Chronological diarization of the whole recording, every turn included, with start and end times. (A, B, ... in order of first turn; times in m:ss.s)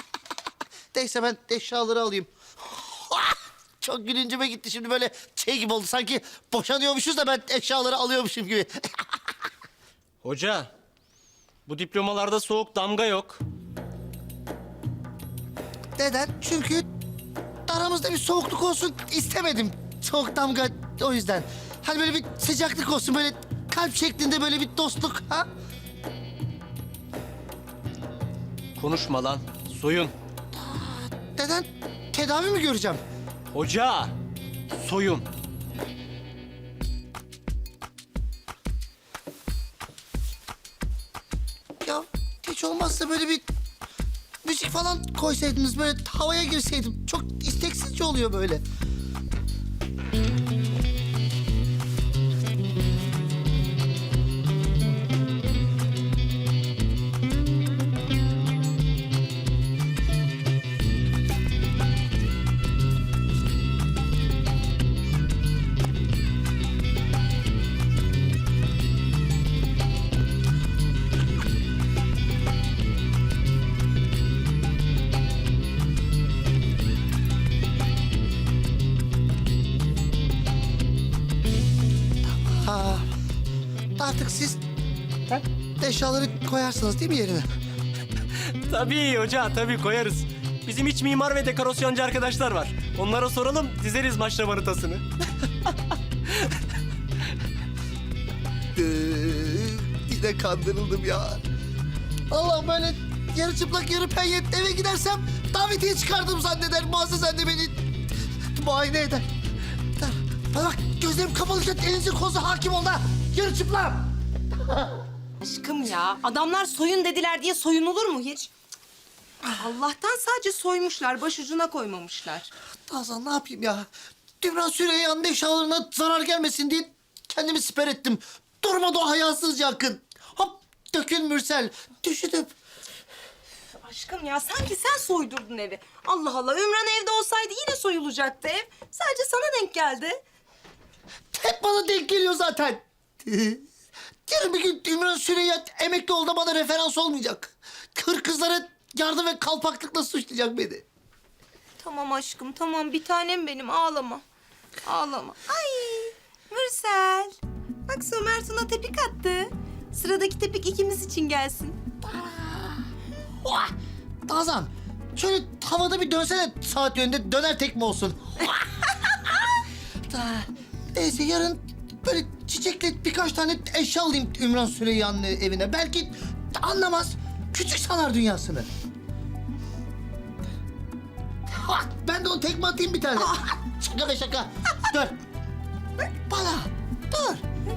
0:00.9-0:09.0 A
0:10.2-0:10.7 B
0:11.7-0:13.4 B
0:16.0-0:16.8 A
0:17.7-0:25.5 A
0:28.8-0:30.1 B
0:30.5-0:33.0 A
0:33.5-0:34.1 B
0:34.8-0:35.2 B
0:41.8-0:43.4 A
0:44.4-0:48.6 A
1:22.2-1:23.1 A
1:24.0-1:24.6 A
1:25.3-1:27.5 A
1:28.4-1:35.0 B
1:38.7-1:41.4 A
1:42.3-1:47.9 A
1:48.5-1:49.3 A
1:50.0-1:55.0 A
1:55.4-1:58.5 C
1:59.5-2:02.5 C
2:02.9-2:03.9 A
2:04.4-2:12.5 A
2:13.8-2:20.2 C
2:21.3-2:23.6 A
2:24.3-2:30.8 A
2:31.8-2:34.2 C
2:34.8-2:37.4 C
2:37.9-2:41.8 C
2:42.0-2:42.9 A
2:43.4-2:43.7 A
2:44.2-2:49.4 A
2:50.1-2:58.7 A
3:01.5-3:05.2 A
3:06.0-3:07.4 A